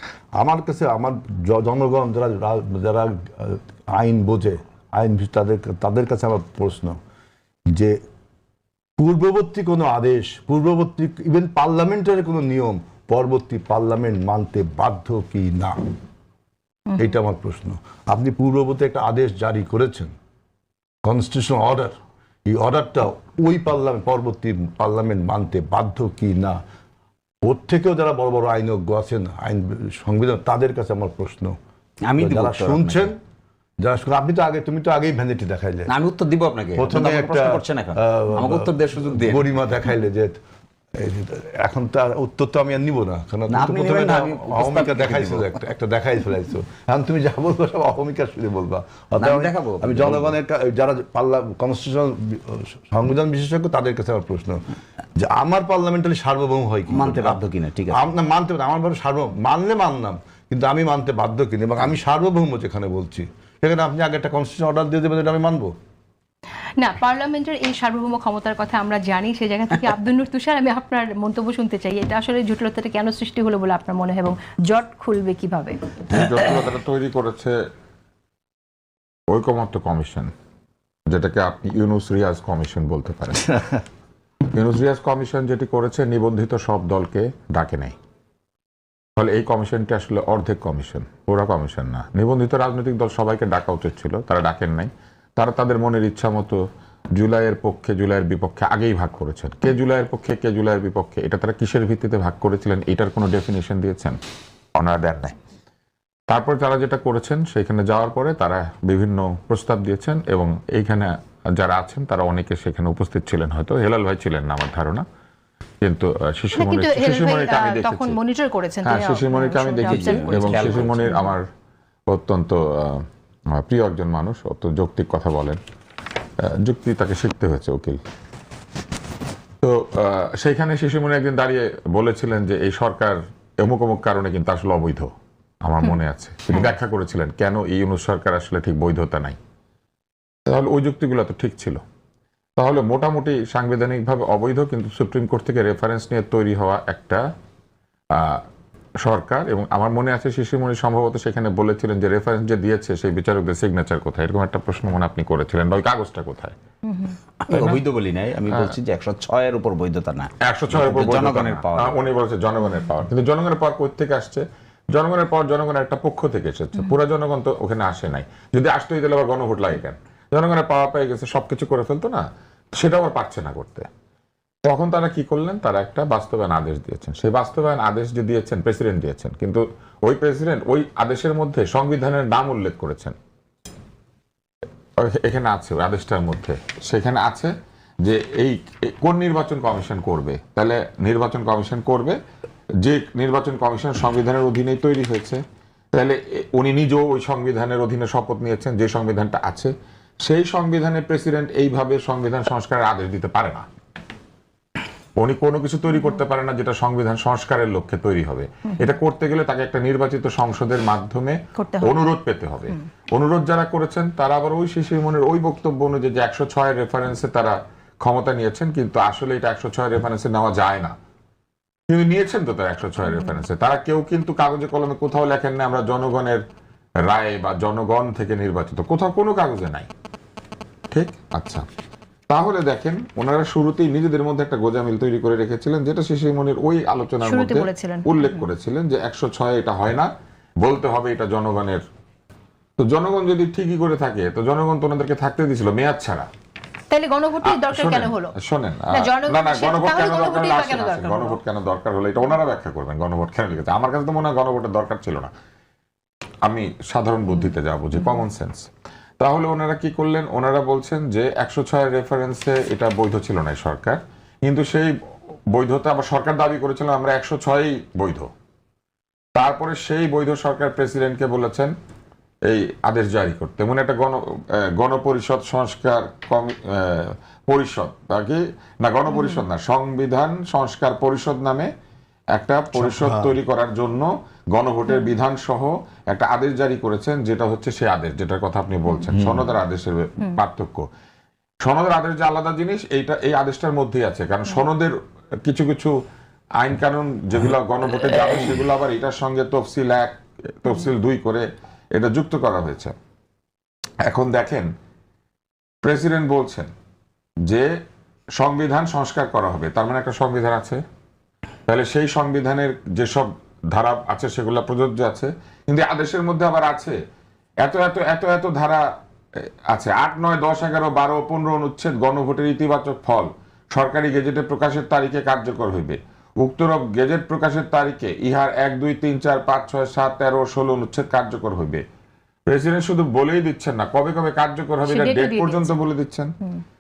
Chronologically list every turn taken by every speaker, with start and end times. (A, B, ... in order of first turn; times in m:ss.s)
0:00.4-0:07.0 A
0:07.7-0:08.0 A
0:09.0-0:15.8 A
0:17.0-0:20.1 A
0:21.0-0:21.9 A
0:22.5-0:26.6 A
0:27.4-0:31.6 A
0:32.1-0:33.1 B
0:32.2-0:33.2 A
0:33.8-0:35.9 A
0:35.9-0:39.5 B
0:36.8-0:40.4 A
0:41.0-0:54.6 A
0:43.5-0:45.6 B
0:49.2-0:50.4 B
0:55.2-0:57.4 A
0:56.9-0:58.1 B
0:57.9-1:05.7 A
1:06.8-1:15.9 C
1:16.1-1:17.6 D
1:19.3-1:20.3 D
1:21.1-1:23.6 D
1:24.5-1:28.0 D
1:29.2-1:36.6 D
1:37.1-1:44.2 D
1:44.8-1:45.3 D
1:46.3-1:55.0 D
1:55.8-1:58.2 D
1:56.5-2:01.3 C
1:58.8-2:01.5 D
1:59.8-2:01.2 B
2:02.1-2:03.0 D
2:03.5-2:05.6 D
2:06.4-2:08.0 D
2:09.6-2:15.1 D
2:15.6-2:19.4 D
2:20.5-2:21.8 D
2:22.6-2:27.2 D
2:28.2-2:28.4 D
2:29.0-2:36.6 D
2:36.9-2:37.2 C
2:37.4-2:42.0 B
2:37.5-2:37.8 D
2:38.5-2:38.8 D
2:40.4-2:52.2 D
2:52.8-2:53.9 D
2:54.6-3:03.1 D
3:05.0-3:12.2 D
3:12.8-3:15.4 D
3:15.9-3:23.6 D
3:25.2-3:40.9 D
3:31.6-3:32.0 C
3:41.9-3:46.4 D
3:47.0-3:49.9 D
3:50.9-3:51.6 D
3:52.3-4:01.8 D
3:57.2-3:58.4 C
4:02.8-4:06.3 D
4:06.9-4:08.3 C
4:07.4-4:15.3 D
4:08.9-4:11.4 C
4:16.4-4:18.7 D
4:19.2-4:24.9 D
4:25.5-4:28.3 D
4:29.4-4:31.7 D
4:32.5-4:41.7 D
4:39.1-4:39.4 C
4:42.3-4:50.9 D
4:42.7-4:43.4 A
4:49.2-4:49.5 A
4:51.6-4:55.9 D
4:56.6-5:01.4 D
5:01.9-5:02.9 D
5:04.0-5:04.7 D
5:05.8-5:06.7 D
5:08.4-5:10.8 D
5:11.7-5:17.0 D
5:17.6-5:18.9 D
5:19.7-5:31.8 D
5:32.5-5:36.3 D
5:34.9-5:35.7 C